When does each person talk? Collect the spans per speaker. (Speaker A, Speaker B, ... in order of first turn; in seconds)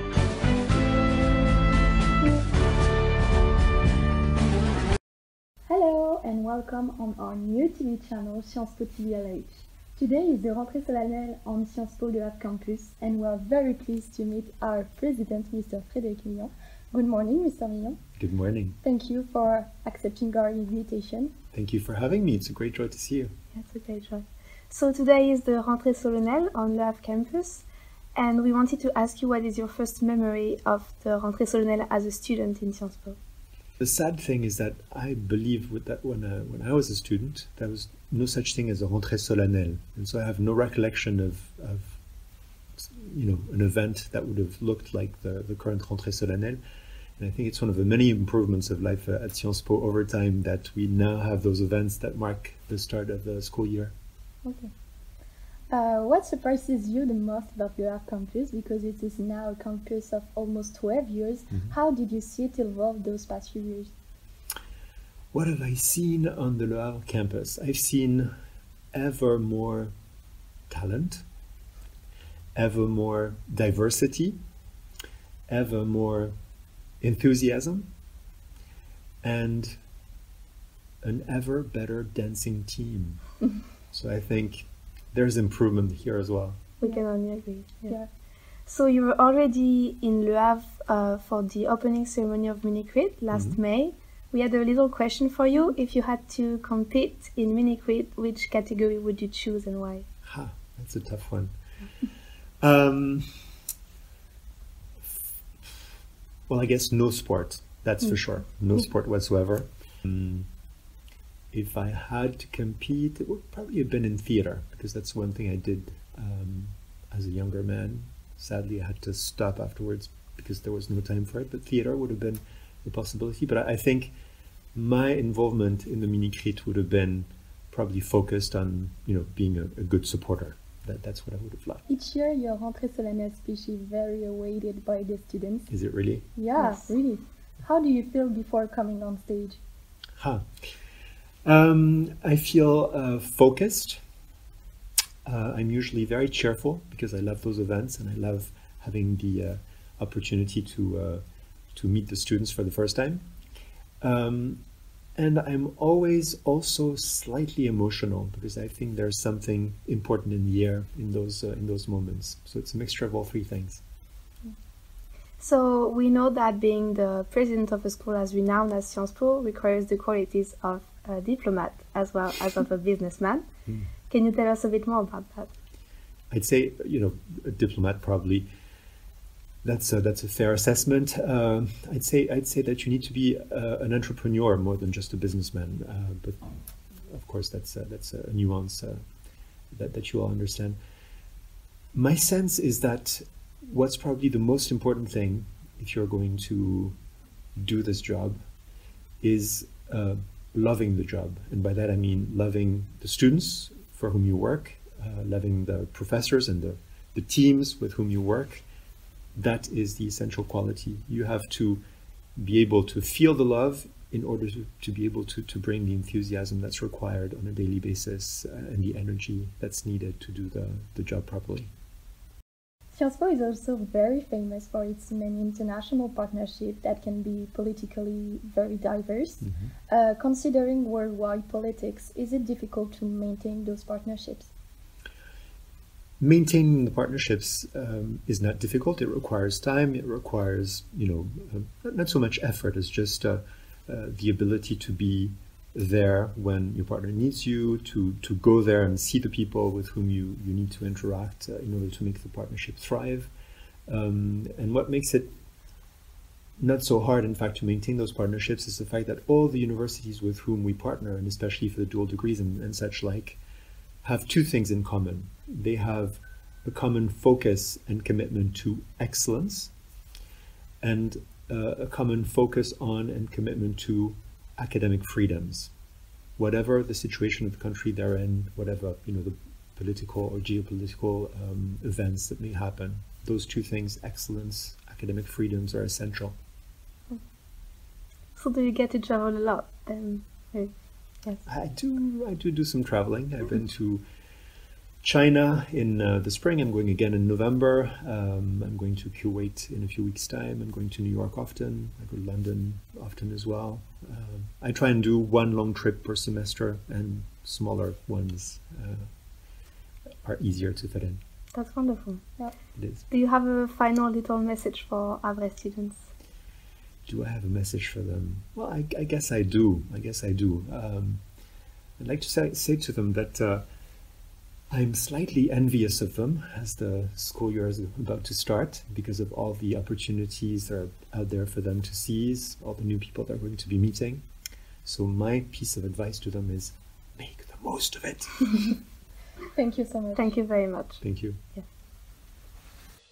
Speaker A: 5.7-18.0, 18.8-21.3, 54.4-54.7, 55.7-63.9, 131.9-135.7, 136.3-139.6, 222.9-234.5, 339.5-340.4
Speaker B: 18.2-18.8, 21.5-23.3, 33.8-42.0, 42.8-46.6, 47.2-53.9, 65.3-68.3, 68.9-69.9, 70.7-71.2, 72.5-74.4, 75.5-76.3, 77.0-77.9, 79.2-79.8, 81.0-83.2, 83.9-86.6, 93.3-93.6, 100.2-101.5, 102.6-103.4, 106.5-110.5, 111.5-124.1, 124.7-131.8, 135.7-136.3, 140.2-140.4, 141.4-144.0, 145.2-151.2, 151.7-153.3, 154.0-154.6, 155.2-163.8, 176.3-178.5, 179.6-186.4, 187.1-189.0, 189.7-190.8, 191.9-196.9, 197.6-198.4, 199.2-208.6, 209.3-211.8, 212.3-221.7, 229.4-229.7, 236.2-253.3, 253.9-255.3, 256.6-263.4, 264.0-269.7, 270.8-275.7, 276.4-286.4, 291.4-294.0, 295.0-309.1, 310.2-311.2, 312.7-313.0, 317.1-321.2, 322.0-323.6, 324.7-334.2, 334.8-338.7, 341.0-341.4
Speaker C: 23.5-33.2, 86.8-88.0, 88.7-100.0, 136.6-136.9, 165.4-173.4, 174.1-175.5, 288.4-290.7, 311.5-312.2, 313.1-316.0, 340.1-341.0